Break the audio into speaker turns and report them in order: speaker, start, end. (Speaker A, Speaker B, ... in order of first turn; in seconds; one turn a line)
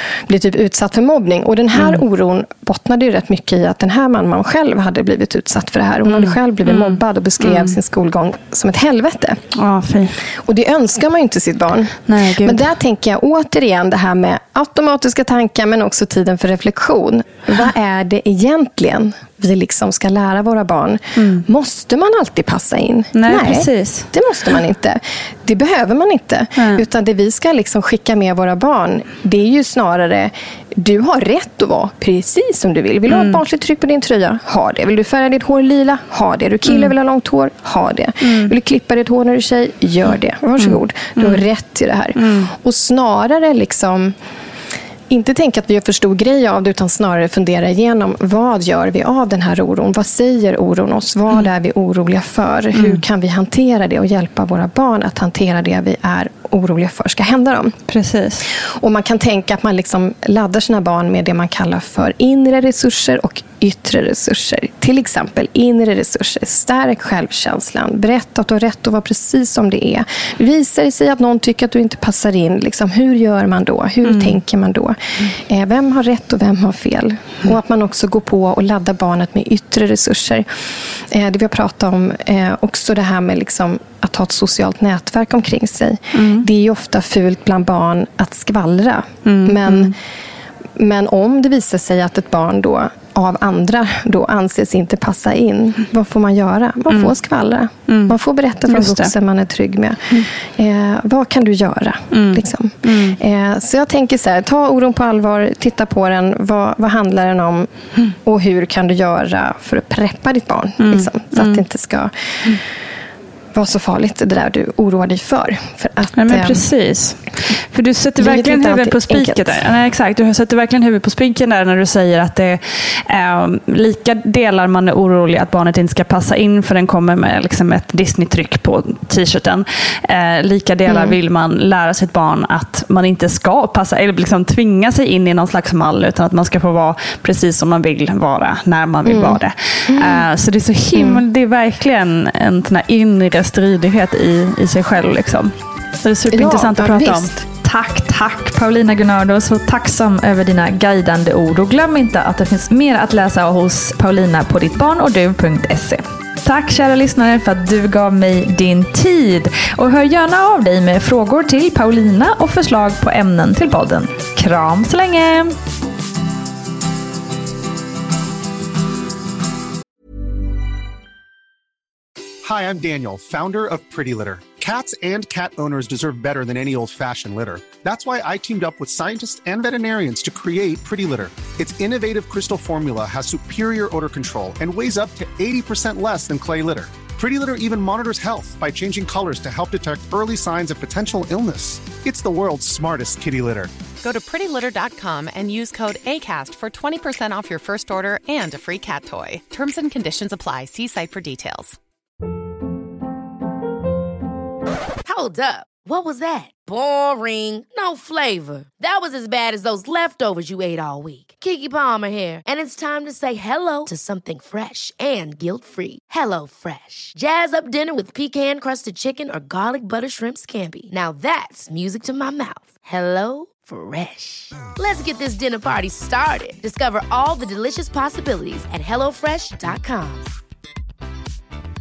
Speaker A: 0.3-9.4
Speaker B: 1.7-2.0
Speaker B: 6.1-7.8
Speaker B: 9.5-10.2
Speaker A: 10.4-44.1
Speaker B: 12.1-12.7
Speaker B: 21.2-21.4
Speaker B: 23.1-24.1
Speaker B: 26.6-26.8
Speaker B: 33.1-33.4
Speaker B: 36.6-36.9
Speaker B: 38.2-38.5
Speaker B: 40.6-41.4
Speaker B: 42.2-42.5
Speaker A: 45.1-57.8
Speaker B: 52.7-53.0
Speaker B: 57.9-58.4
Speaker A: 58.5-80.5
Speaker B: 74.0-74.4
Speaker A: 81.1-89.9
Speaker B: 86.1-86.5
Speaker B: 89.2-89.9
Speaker A: 90.8-107.7
Speaker B: 96.9-97.2
Speaker B: 97.9-98.2
Speaker B: 98.7-99.1
Speaker B: 102.1-103.2
Speaker A: 108.2-112.4
Speaker B: 110.8-111.6
Speaker A: 113.5-116.7
Speaker B: 116.2-165.6
Speaker A: 118.2-119.7
Speaker A: 130.8-131.2
Speaker A: 139.1-140.3
Speaker A: 140.9-141.2
Speaker A: 146.3-147.4
Speaker C: 172.4-193.7
Speaker D: 194.0-201.8
Speaker E: 205.1-230.3